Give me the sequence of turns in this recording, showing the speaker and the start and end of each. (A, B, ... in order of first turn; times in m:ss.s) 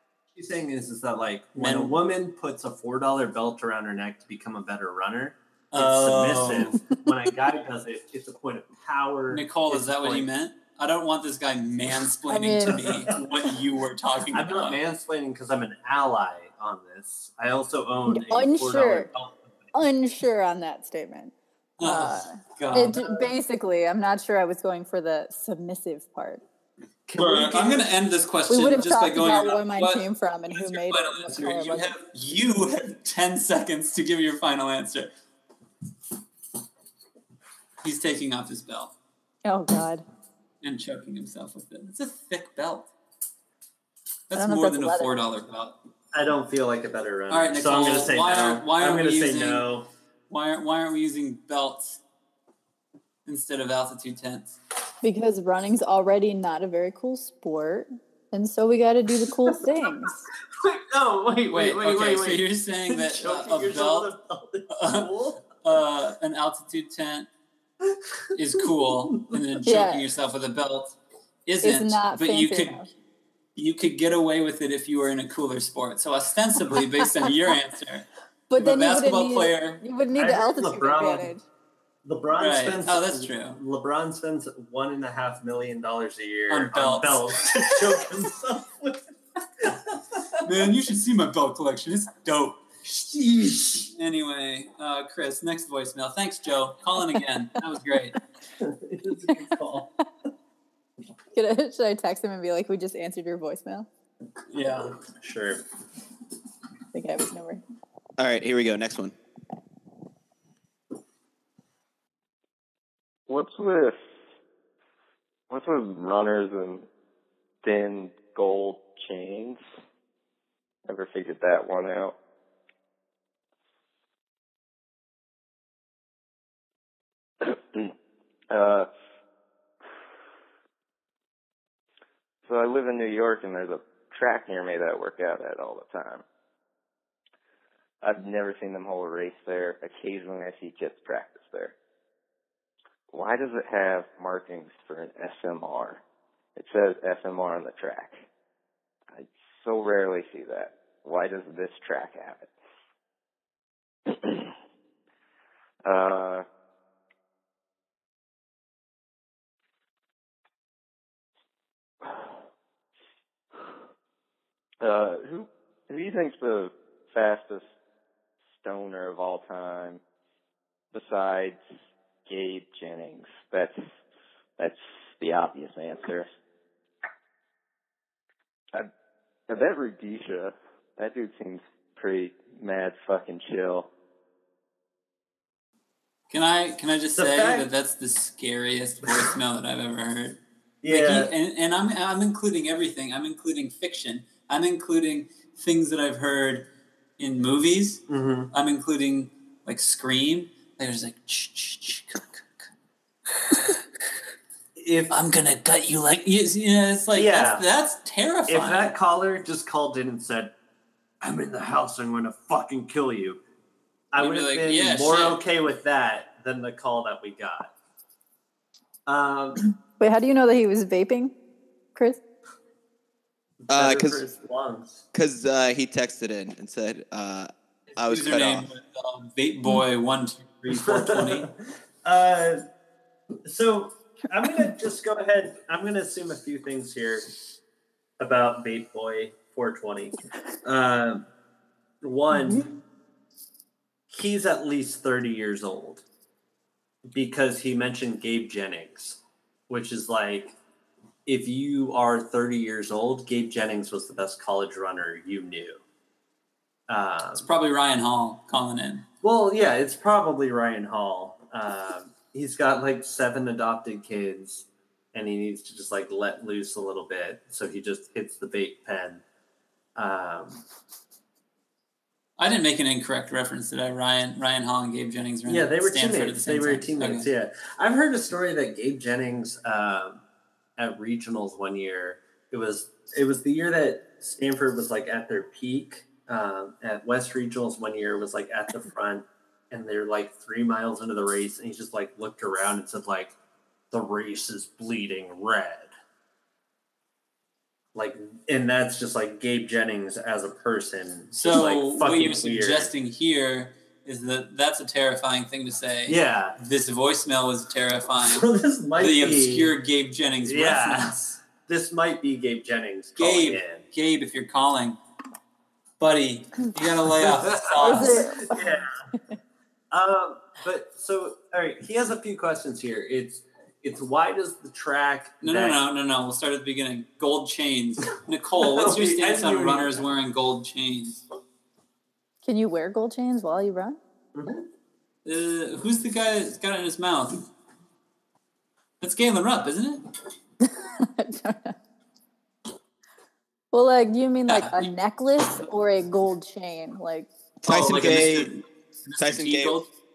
0:00.3-0:10.3 A
0:01.6-0:01.9 B
0:05.7-0:06.8 B
0:09.3-0:14.8 B
0:12.3-0:13.0 C
0:14.3-0:19.4 A
0:18.1-0:19.1 C
0:19.7-0:26.4 C
0:21.8-0:23.0 B
0:27.1-0:27.9 A
0:27.2-0:35.1 B
0:28.5-0:32.0 C
0:37.8-0:38.9 B
0:39.4-0:40.0 C
0:40.6-0:42.9 B
0:44.3-0:45.8 B
0:44.3-0:45.1 C
0:46.1-0:49.9 A
0:47.3-0:49.7 B
0:50.3-0:52.0 B
0:53.2-0:54.6 B
0:55.0-1:00.3 C
0:59.5-1:05.4 A
1:01.5-1:04.1 B
1:04.7-1:07.3 B
1:08.3-1:12.8 B
1:09.0-1:09.4 A
1:09.6-1:10.0 C
1:11.6-1:12.9 C
1:13.6-1:19.8 B
1:18.5-1:21.4 C
1:20.1-1:21.3 A
1:22.0-1:29.0 A
1:22.4-1:23.6 B
1:26.5-1:27.9 B
1:29.6-1:30.4 A
1:30.4-1:32.6 B
1:32.8-1:33.9 A
1:33.9-1:38.2 B
1:38.6-1:39.9 A
1:41.3-1:43.9 C
1:44.5-1:45.0 B
1:45.0-1:45.6 A
1:46.9-1:47.6 C
1:48.2-1:49.2 D
1:53.3-1:54.0 E
1:55.5-1:56.8 E
1:57.6-1:59.6 E
2:00.9-2:02.2 E
2:07.4-2:07.9 E
2:08.5-2:08.9 E
2:12.4-2:16.2 E
2:18.0-2:21.7 E
2:23.1-2:26.0 E
2:26.6-2:28.2 E
2:29.1-2:32.5 E
2:34.1-2:34.5 E
2:35.8-2:36.4 E
2:42.0-2:42.3 E
2:44.8-2:47.6 E
2:48.6-2:50.0 E
2:50.9-2:51.6 E
2:52.3-2:53.8 E
2:54.6-2:56.3 E
2:59.5-3:03.9 E
3:06.3-3:22.7 B
3:07.1-3:07.7 A
3:10.8-3:11.3 A
3:18.1-3:18.5 A
3:24.8-3:25.2 A
3:25.1-3:29.0 B
3:27.1-3:27.6 A
3:28.5-3:30.5 A
3:31.2-3:33.4 A
3:34.1-3:37.7 A
3:34.2-3:35.4 B
3:39.0-3:39.6 A
3:40.0-3:41.3 C
3:41.9-3:42.2 C
3:43.6-3:45.0 A
3:43.7-3:44.2 D
3:45.1-3:48.7 D
3:47.9-3:51.5 B
3:50.7-3:52.6 A
3:53.4-3:57.3 A
3:58.2-4:01.2 A
4:02.0-4:02.8 A
4:04.1-4:06.0 A
4:07.1-4:10.6 A
4:11.2-4:15.8 A
4:16.9-4:17.5 A
4:17.3-4:19.0 B
4:19.2-4:29.2 A
4:30.0-4:30.6 A
4:32.4-4:37.3 B
4:35.4-4:40.2 A
4:40.8-4:53.4 A
4:53.9-4:55.9 A
4:57.9-5:02.9 A
5:01.3-5:08.5 B
5:06.1-5:06.6 A
5:08.2-5:09.8 A
5:09.0-5:11.4 B
5:10.4-5:13.9 A
5:13.2-5:15.0 B
5:16.0-5:18.2 B
5:17.2-5:18.9 A
5:17.8-5:18.7 C
5:19.9-5:25.8 A
5:25.4-5:31.2 B
5:28.6-5:30.0 A
5:32.4-5:34.0 C
5:34.3-5:34.7 A
5:35.2-5:37.4 B
5:39.0-5:40.0 B
5:40.6-5:41.7 C
5:43.7-5:47.3 C
5:44.5-5:44.9 B
5:47.6-5:49.9 B
5:47.6-5:48.5 D
5:49.2-5:49.8 D